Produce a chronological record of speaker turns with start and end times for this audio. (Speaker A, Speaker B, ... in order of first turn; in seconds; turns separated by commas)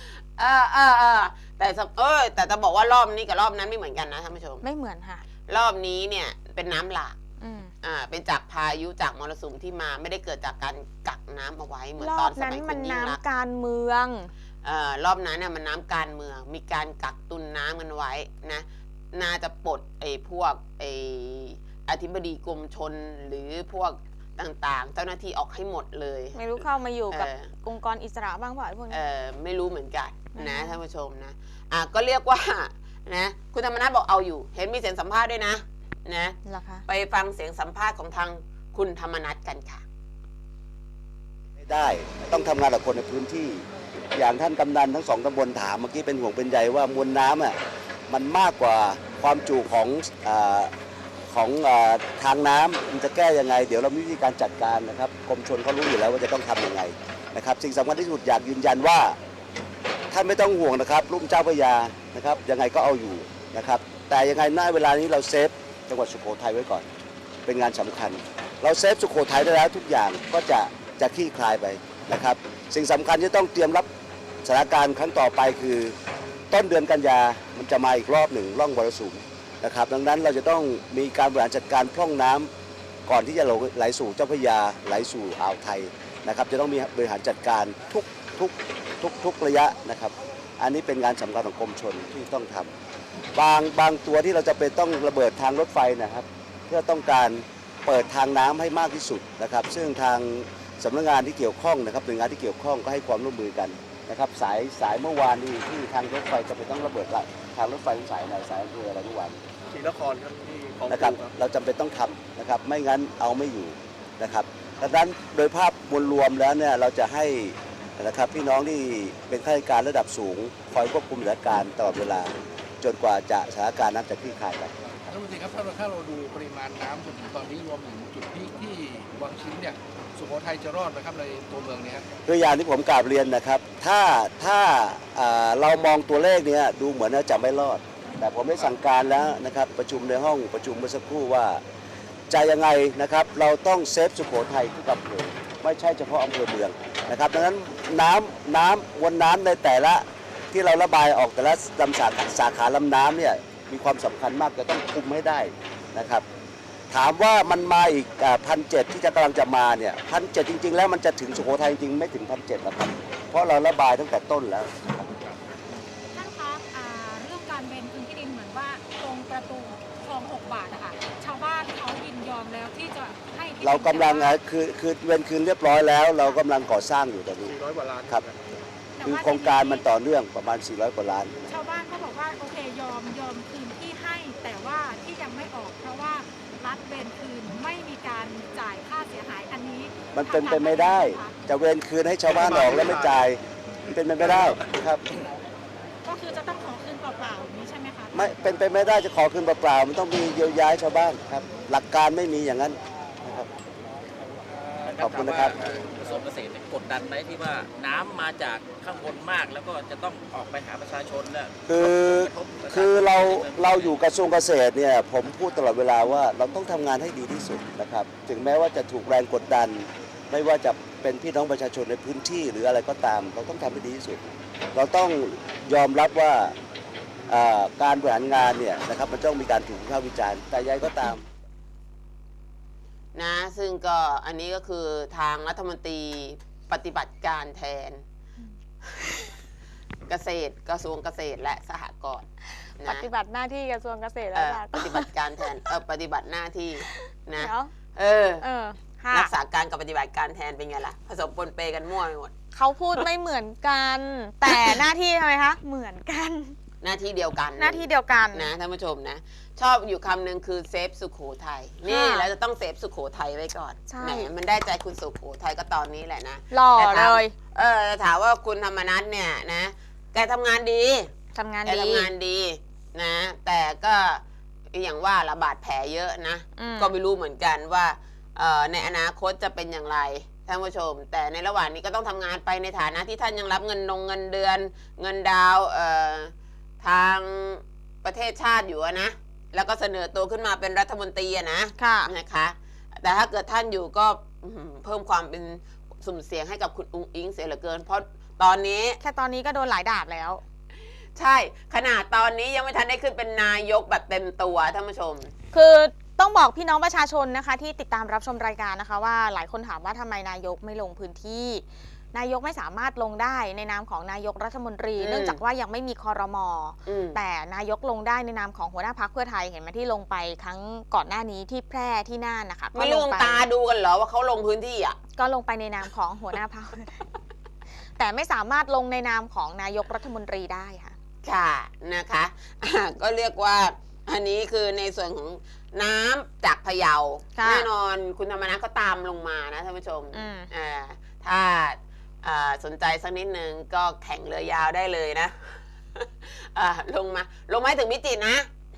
Speaker A: 0.4-4.6, Speaker B: 4.6-5.2, Speaker A: 5.5-7.2, Speaker B: 7.4-7.7, Speaker A: 7.8-13.2, Speaker B: 12.0-14.3, Speaker A: 14.6-26.4, Speaker B: 26.3-29.0, Speaker A: 27.1-27.5, Speaker A: 28.9-39.8, Speaker B: 30.3-30.8, Speaker B: 36.5-36.8, Speaker C: 41.6-47.5, Speaker C: 48.1-50.7, Speaker C: 51.3-59.1, Speaker C: 60.1-66.9, Speaker C: 67.5-73.9, Speaker C: 74.4-76.0, Speaker C: 76.5-82.5, Speaker C: 83.0-92.7, Speaker C: 93.3-109.4, Speaker D: 109.7-111.3, Speaker C: 110.9-125.1, Speaker E: 125.1-132.1, Speaker C: 132.2-141.6, Speaker C: 142.3-156.2, Speaker C: 156.9-165.1, Speaker F: 166.1-174.3, Speaker C: 173.6-178.2, Speaker D: 177.4-178.6, Speaker F: 179.0-179.8, Speaker C: 179.0-181.3, Speaker F: 181.4-191.4, Speaker C: 190.1-195.0, Speaker D: 192.3-193.2, Speaker D: 194.2-194.6, Speaker F: 196.0-198.2, Speaker C: 198.1-203.5, Speaker G: 204.8-214.0, Speaker C: 205.0-205.6, Speaker C: 211.7-226.5, Speaker C: 227.3-231.2, Speaker A: 233.1-238.0, Speaker A: 240.1-242.2, Speaker A: 242.8-243.1, Speaker B: 242.8-245.1, Speaker A: 244.3-248.4, Speaker B: 247.4-247.7, Speaker B: 248.4-249.3, Speaker A: 249.1-252.3, Speaker B: 252.5-256.6, Speaker A: 254.5-254.8, Speaker A: 256.8-271.1, Speaker B: 257.6-258.5, Speaker B: 261.9-262.3, Speaker B: 263.9-264.3, Speaker B: 266.5-267.3, Speaker B: 271.3-272.1, Speaker A: 271.6-299.0, Speaker B: 276.6-276.9, Speaker B: 291.8-292.1, Speaker B: 299.0-300.4, Speaker A: 301.1-305.3, Speaker B: 305.5-323.4, Speaker A: 315.0-315.4, Speaker A: 316.9-317.2, Speaker A: 322.7-325.0, Speaker B: 325.2-327.0, Speaker B: 328.0-330.9, Speaker A: 331.2-348.5, Speaker B: 337.4-337.7, Speaker B: 340.1-340.5